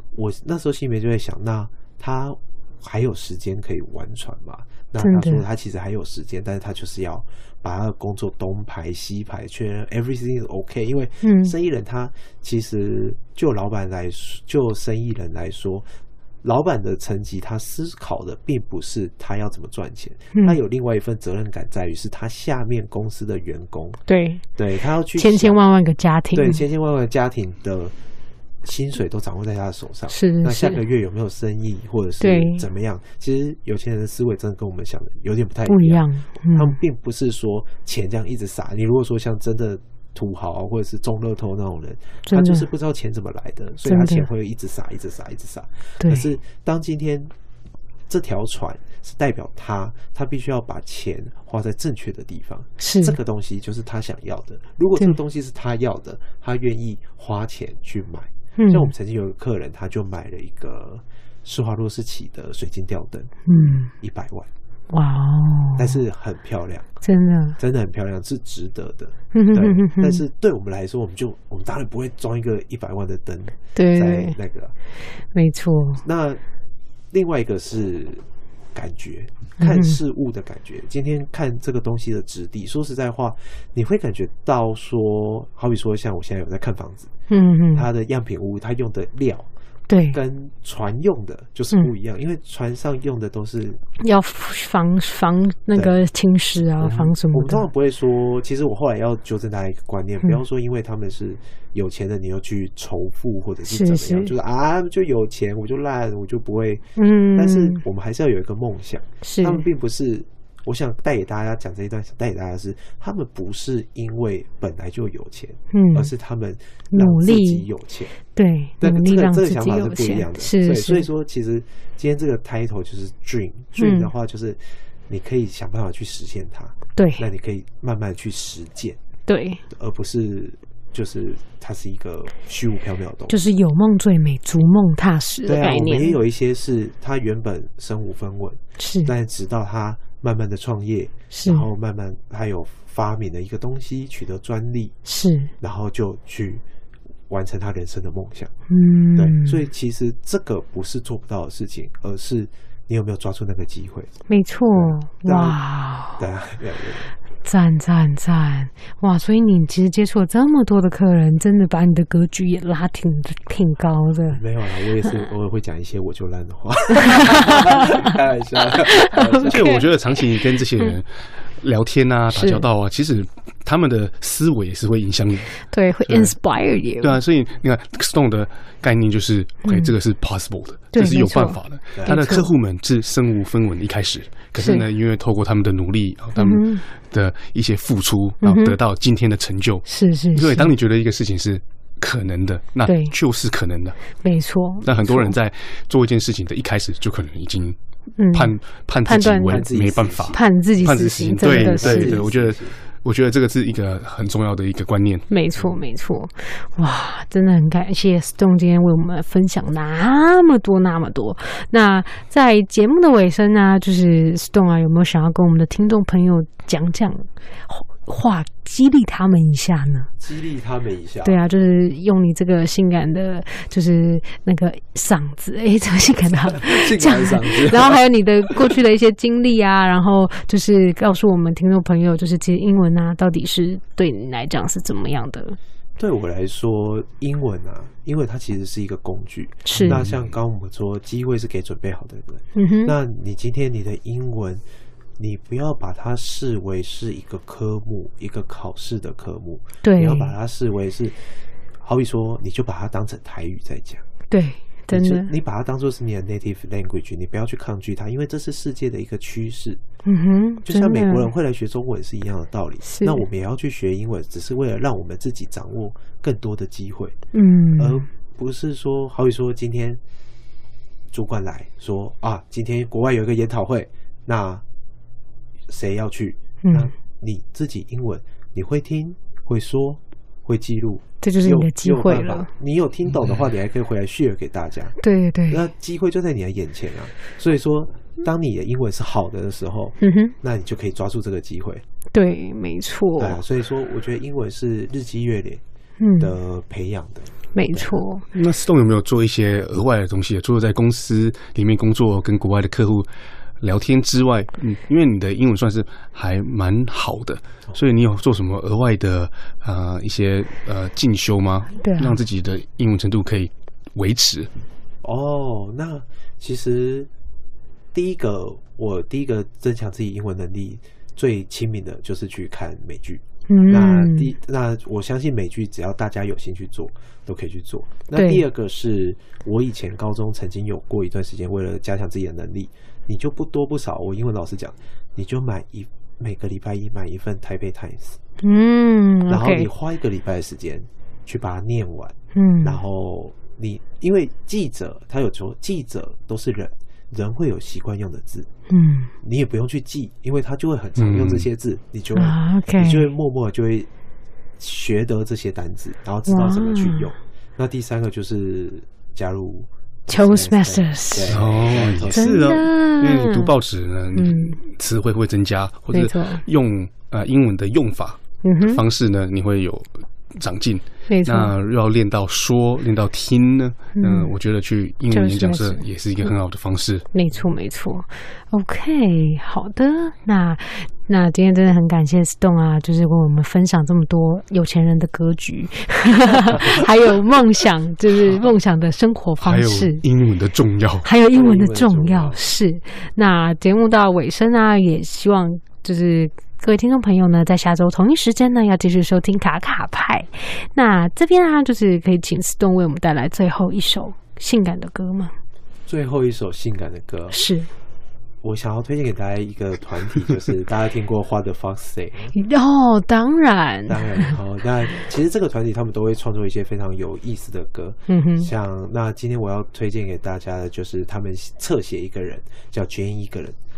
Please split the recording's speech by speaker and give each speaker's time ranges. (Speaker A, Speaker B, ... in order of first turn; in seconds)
Speaker A: 0.1-15.9, 16.4-24.0, 24.5-25.6, 26.3-27.9, 28.6-47.3, 48.1-64.5, 65.8-66.9, 67.6-74.7, 76.0-76.4, 77.1-87.1, 87.7-89.5, 90.1-93.8, 96.8-118.1, 118.8-129.0, 129.7-133.4, 135.4-144.9, 145.6-146.6, 147.3-148.5, 149.2-154.1, 154.7-155.6, 156.1-157.1, 164.3-169.8, 181.9-182.3, 199.2-202.8, 220.2-221.4, 226.5-228.5, 236.0-244.6, 245.2-254.0, 254.9-259.8, 260.6-267.2, 267.8-270.0, 271.1-274.6, 275.7-284.9, 285.5-291.8, 293.2-295.6, 296.2-298.0, 315.0-317.1, 317.9-338.2, 339.3-348.5, 349.2-353.9, 354.6-362.4, 391.3-392.4, 405.9-407.4, 408.4-412.3, 413.9-423.6
Speaker B: 5.0-5.4, 11.2-11.5, 24.1-24.4, 25.1-26.6, 30.1-30.8, 32.2-32.6, 35.7-36.8, 42.3-42.7, 43.8-44.3, 46.0-46.3, 52.8-53.1, 58.6-58.9, 63.5-63.9, 64.9-66.0, 67.0-67.6, 69.3-70.2, 73.7-74.3, 75.3-76.0, 79.6-80.0, 87.3-87.9, 89.9-90.2, 94.0-97.6, 103.7-104.3, 107.0-107.8, 109.2-109.6, 115.7-116.1, 116.9-117.6, 118.3-121.1, 123.8-124.1, 127.0-127.2, 129.3-129.6, 133.3-136.2, 138.8-139.1, 141.3-141.7, 145.0-145.5, 148.7-149.6, 154.3-156.2, 157.4-164.4, 167.0-168.1, 169.0-169.8, 172.3-172.6, 175.7-177.2, 179.6-179.9, 180.9-182.5, 184.6-184.8, 186.3-186.8, 188.4-188.8, 189.9-190.7, 192.8-193.1, 194.2-195.3, 198.2-199.7, 200.3-202.2, 205.3-220.1, 221.2-235.6, 239.6-240.0, 242.5-242.9, 249.8-250.3, 254.3-255.3, 260.0-261.3, 262.8-263.2, 267.3-268.1, 276.6-276.9, 281.2-282.5, 285.0-285.7, 290.0-290.3, 292.1-293.4, 296.0-296.3, 297.5-298.2, 311.8-312.2, 323.5-324.3, 328.1-328.4, 338.4-339.7, 342.3-342.8, 348.7-349.1, 352.1-353.1, 356.2-357.1, 360.1-361.5, 362.1-363.5, 364.1-364.6, 365.9-366.4, 368.4-368.8, 371.1-371.5, 374.0-374.3, 375.1-376.3, 377.1-390.0, 391.0-405.3, 407.3-407.7, 412.3-414.3, 418.1-418.5
Speaker C: 169.4-171.1, 171.6-176.3, 177.0-194.0, 194.8-197.8, 198.3-205.3, 239.7-240.2, 298.3-303.1, 303.6-314.5, 351.0-351.4, 361.3-377.1, 389.4-391.1